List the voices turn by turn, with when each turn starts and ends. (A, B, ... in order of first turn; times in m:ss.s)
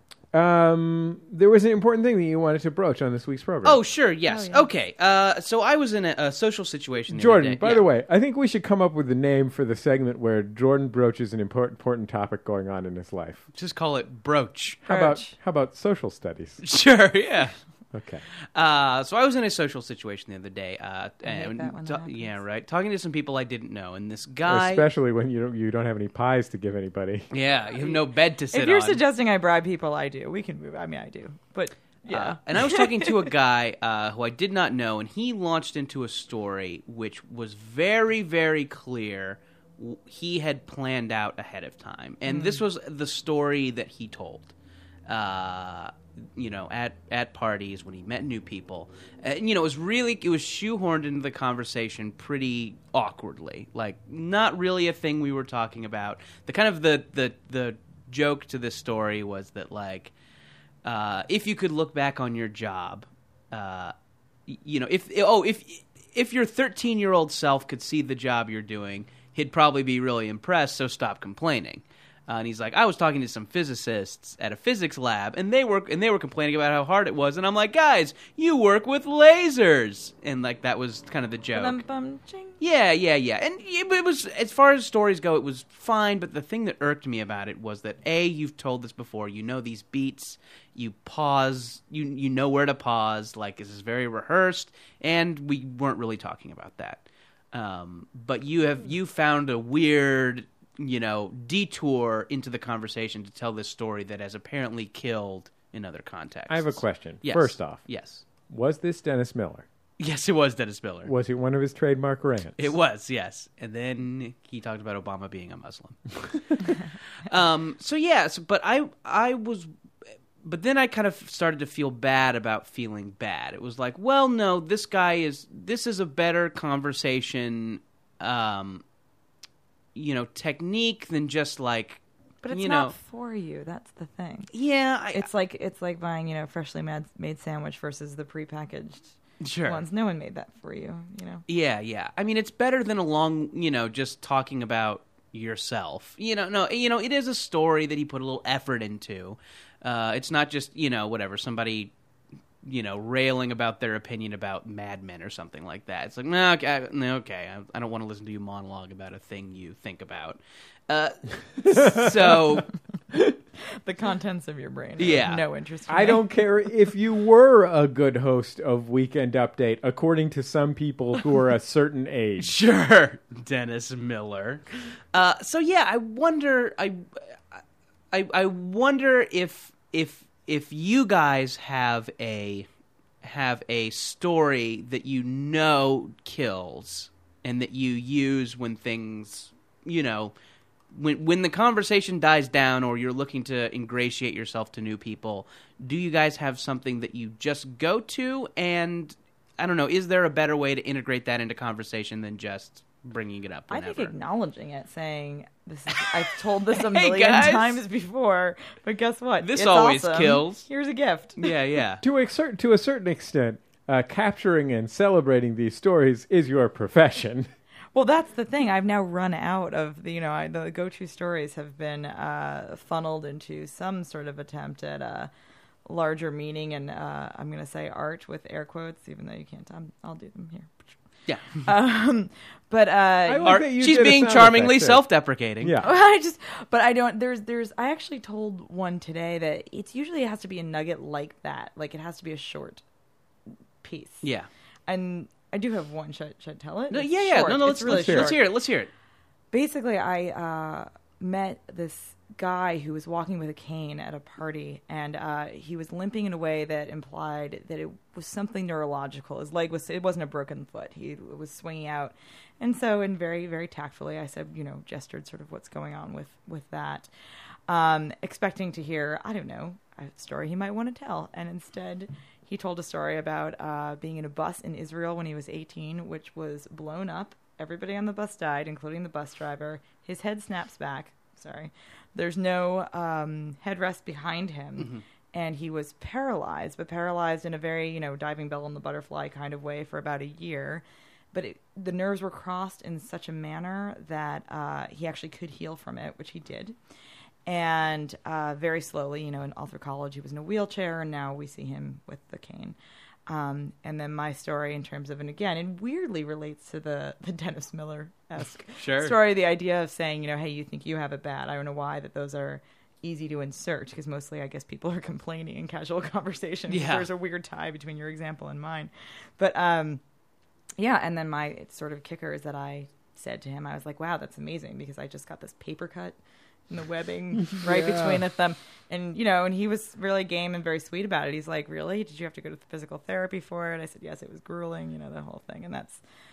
0:00.3-0:03.8 A
0:03.6-0:07.8 B
0:04.3-0:04.7 C
0:07.1-0:13.4 A
0:13.5-0:14.8 B
0:14.8-0:16.6 A
0:14.8-0:15.3 C
0:16.6-0:17.5 B
0:17.9-0:18.2 A
0:18.5-0:24.8 B
0:21.2-0:22.4 C
0:24.4-0:27.3 A
0:27.3-0:29.0 B
0:27.8-0:33.3 C
0:32.1-0:44.5 B
0:42.3-0:42.6 C
0:45.1-1:00.1 B
1:00.8-1:03.9 B
1:04.5-1:21.8 B
1:21.5-1:22.6 C
1:22.6-1:48.2 B
1:46.5-1:47.8 A
1:48.5-1:49.6 A
1:50.0-1:51.1 B
1:51.0-1:52.6 A
1:52.6-1:59.7 B
2:00.4-2:08.8 B
2:09.9-2:12.9 B
2:12.4-2:14.5 C
2:14.5-2:15.3 B
2:15.1-2:21.4 C
2:19.4-2:19.8 B
2:21.5-2:31.9 B
2:32.6-2:42.7 B
2:41.7-2:42.1 A
2:43.8-2:46.3 C
2:45.0-2:45.4 B
2:45.9-2:52.5 A
2:52.4-3:02.6 B
3:03.2-3:10.3 B
3:10.9-3:24.1 B
3:23.7-3:31.5 C
3:26.0-3:27.8 B
3:29.4-3:30.6 B
3:31.4-3:32.0 B
3:32.0-3:37.5 A
3:37.9-3:45.3 C
3:45.8-3:50.9 C
3:51.3-3:51.6 B
3:51.5-3:53.6 C
3:53.2-3:55.0 A
3:53.4-3:55.8 B
3:55.6-3:55.9 A
3:55.8-4:02.8 C
4:03.8-4:04.3 C
4:04.2-4:04.5 B
4:04.9-4:08.5 C
4:06.9-4:08.9 B
4:07.8-4:08.3 A
4:09.5-4:27.1 C
4:27.7-4:56.8 C
4:44.8-4:45.0 B
4:57.4-5:02.8 C
5:03.3-5:20.0 C
5:08.8-5:09.2 B
5:16.7-5:17.1 B
5:20.8-5:26.2 C
5:26.7-5:36.0 C
5:27.4-5:28.2 A